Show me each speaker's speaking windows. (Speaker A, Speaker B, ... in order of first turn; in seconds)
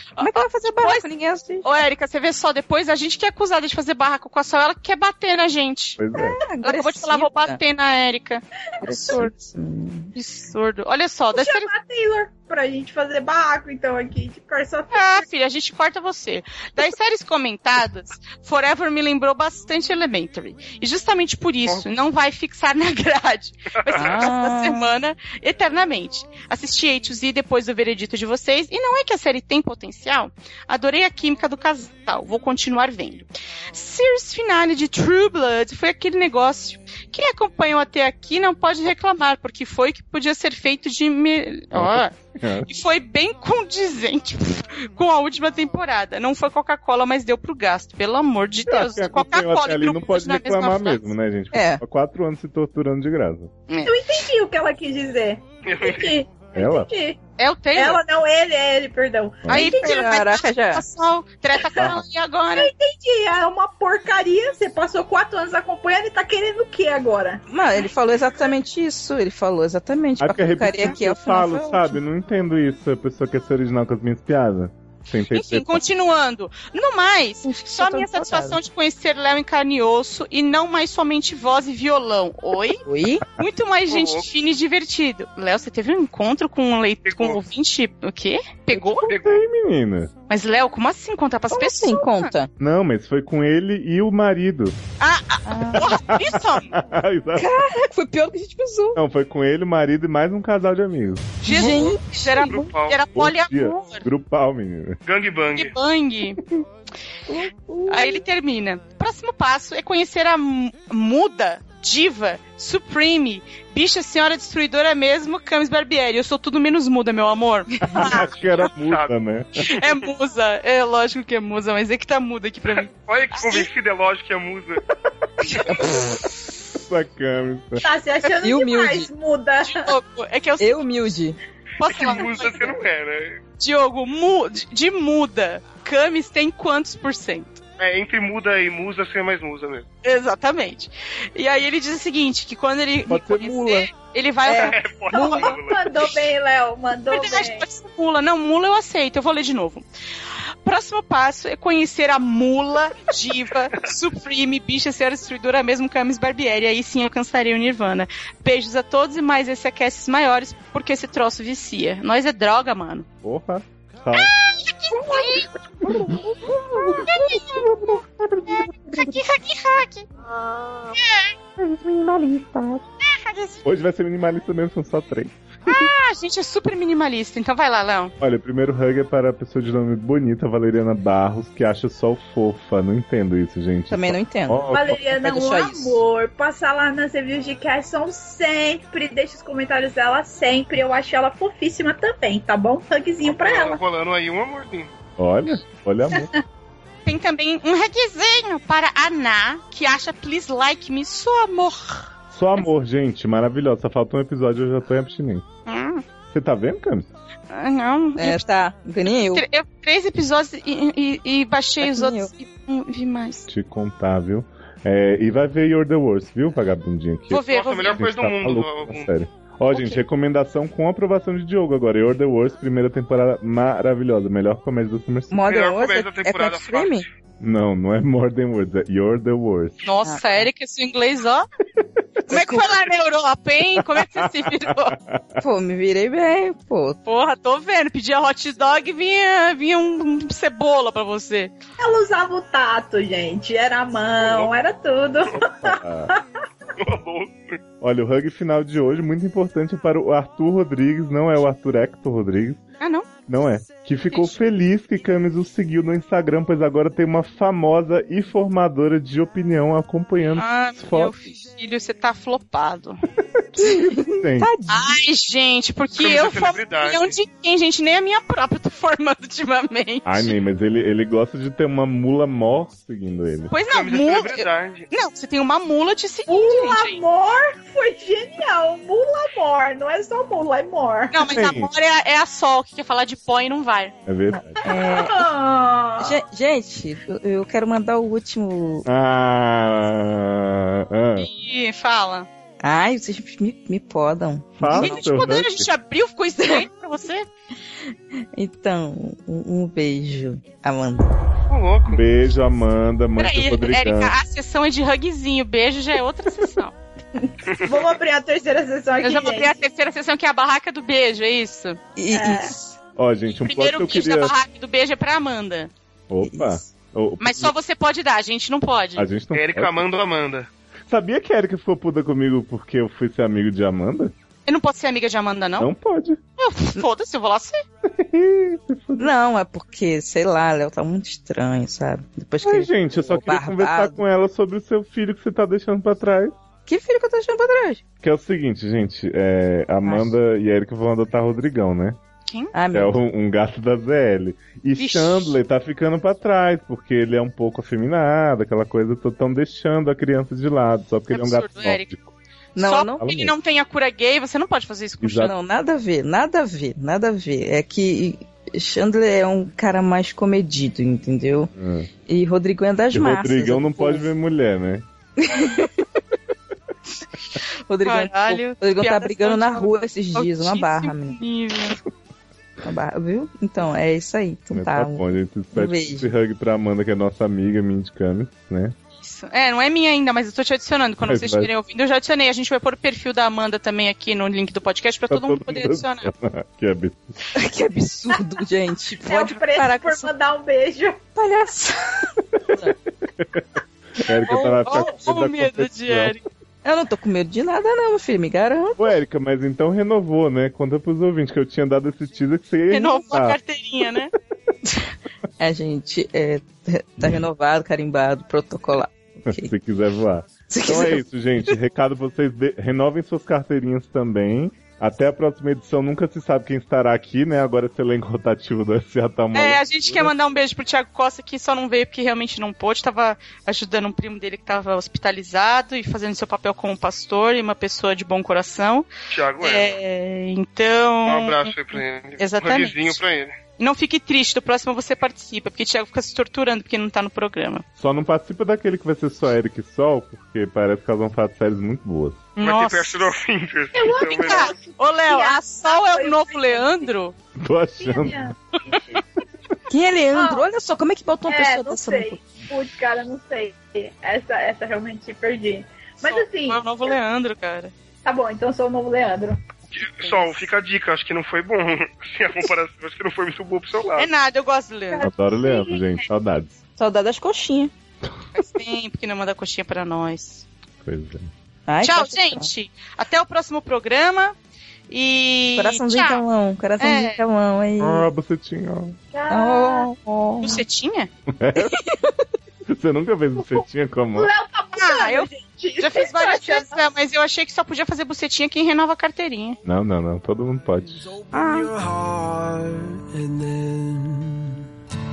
Speaker A: 0.2-1.0, 1.6-6.0, 6.6-9.5, 10.1-11.7, 14.9-42.1, 42.6-51.1, 53.7-54.0, 57.4-58.0, 59.5-62.7, 75.3-82.8, 83.4-89.1, 90.3-92.3, 95.0-96.8, 101.4-104.1, 105.5-106.4, 107.9-118.3, 119.7-123.7, 129.6-131.1, 131.8-132.7, 133.6-137.6, 140.0-145.5, 147.1-149.8, 150.6-163.1, 164.1-165.5, 166.9-167.6, 168.4-170.1, 171.0-171.3, 173.0-173.6, 175.7-178.1, 197.1-202.1, 205.7-206.0, 207.5-208.5, 209.3-213.5, 217.3-218.0, 229.8-231.4, 232.2-234.9, 237.1-241.5, 252.8-253.1, 260.4-263.0, 264.7-270.3, 273.5-277.0, 281.1-283.9, 291.1-292.3, 294.7-297.3, 303.2-306.7, 309.0-311.8, 313.4-315.7, 317.2-319.1, 324.4-325.7, 326.4-327.6, 342.3-342.5, 344.8-345.4, 351.1-351.9, 352.6-355.3, 367.8-371.8, 379.0-386.1, 394.2-396.2, 402.7-404.1, 419.3-428.9, 429.4-433.0, 433.6-437.6, 442.4-443.0, 444.1-447.1, 456.0-457.7, 459.8-460.3, 463.9-465.1, 468.3-470.4, 471.8-474.3, 474.9-476.2, 476.8-477.2, 480.4-481.1, 484.7-489.6, 491.3-491.7
Speaker B: 0.2-1.7, 6.1-7.6, 8.8-10.1, 23.9-24.9, 51.5-51.8, 59.5-60.8, 67.5-72.0, 77.4-78.6, 82.8-83.2, 91.5-92.5, 95.5-95.9, 97.3-99.0, 101.4-102.6, 107.3-108.2, 128.4-129.1, 130.6-131.4, 144.4-144.7, 183.9-186.0, 208.2-209.4, 211.8-212.3, 225.3-227.1, 230.0-230.5, 235.4-237.0, 263.6-265.0, 284.6-285.2, 286.0-288.9, 292.6-295.4, 297.9-301.1, 311.9-312.6, 316.2-316.6, 329.0-334.0, 336.6-337.8, 339.9-340.1, 342.5-342.9, 352.5-353.0, 355.3-361.5, 362.1-364.1, 365.2-365.7, 367.7-371.2, 372.6-376.1, 387.4-390.1, 391.1-392.7, 396.6-398.9, 405.4-409.5, 410.5-411.0, 449.7-452.2, 466.8-467.7, 471.7-472.5, 475.6-478.0, 479.3-480.6, 481.6-482.2
Speaker C: 6.0-6.4, 41.7-42.7, 48.6-53.5, 56.5-56.9, 61.8-62.0, 70.2-75.8, 88.7-90.1, 92.6-94.8, 95.7-97.6, 98.9-101.4, 103.1-105.0, 117.9-119.6, 126.7-127.8, 143.1-143.9, 163.2-164.3, 165.1-169.2, 171.6-172.8, 173.6-175.9, 178.2-185.0, 195.2-196.3, 202.3-205.4, 206.3-207.1, 213.5-225.4, 227.4-229.8, 232.2-232.7, 233.8-235.4, 245.6-246.1, 247.8-252.6, 253.3-261.1, 263.5-264.5, 270.0-273.5, 281.2-281.7, 284.1-284.6, 288.9-291.3, 294.6-295.7, 301.9-304.1, 312.9-314.3, 316.1-317.5, 318.9-319.9, 320.9-324.1, 325.6-326.2, 327.8-329.1, 332.4-336.4, 338.0-342.0, 342.7-352.1, 353.0-353.3, 355.0-355.3, 361.6-361.9, 362.9-364.9, 374.5-378.7, 381.0-381.5, 385.1-387.0, 392.5-396.2, 398.8-403.4, 409.2-420.1, 437.8-442.2, 447.4-448.3, 465.0-466.6, 470.8-471.3, 477.8-479.0, 481.3-481.8, 482.7-484.3, 489.6-491.1
Speaker D: 11.3-15.2, 53.8-57.2, 57.7-60.0, 62.5-67.4, 127.8-129.9, 145.1-147.6, 184.7-193.8, 241.8-246.2, 276.3-281.2, 284.7-286.2, 307.5-309.5, 312.1-312.5, 389.0-391.0, 443.7-446.9, 447.8-449.1, 450.1-450.4, 451.2-456.9, 458.0-459.4, 464.9-465.8, 479.1-479.9, 484.1-486.8
Speaker E: 23.9-24.1, 55.6-56.1, 83.9-84.3, 87.0-87.4, 89.1-89.4, 102.4-103.0, 105.0-105.7, 118.6-119.1, 123.0-124.8, 131.8-133.4, 137.8-139.8, 144.5-145.9, 193.2-194.9, 217.5-219.1, 225.5-227.0, 244.2-244.6, 246.8-247.6, 266.0-267.1, 273.7-274.9, 301.5-302.0, 319.3-320.5, 429.1-429.7, 431.1-433.3, 442.4-444.5, 459.7-464.1
Speaker F: 491.0-494.6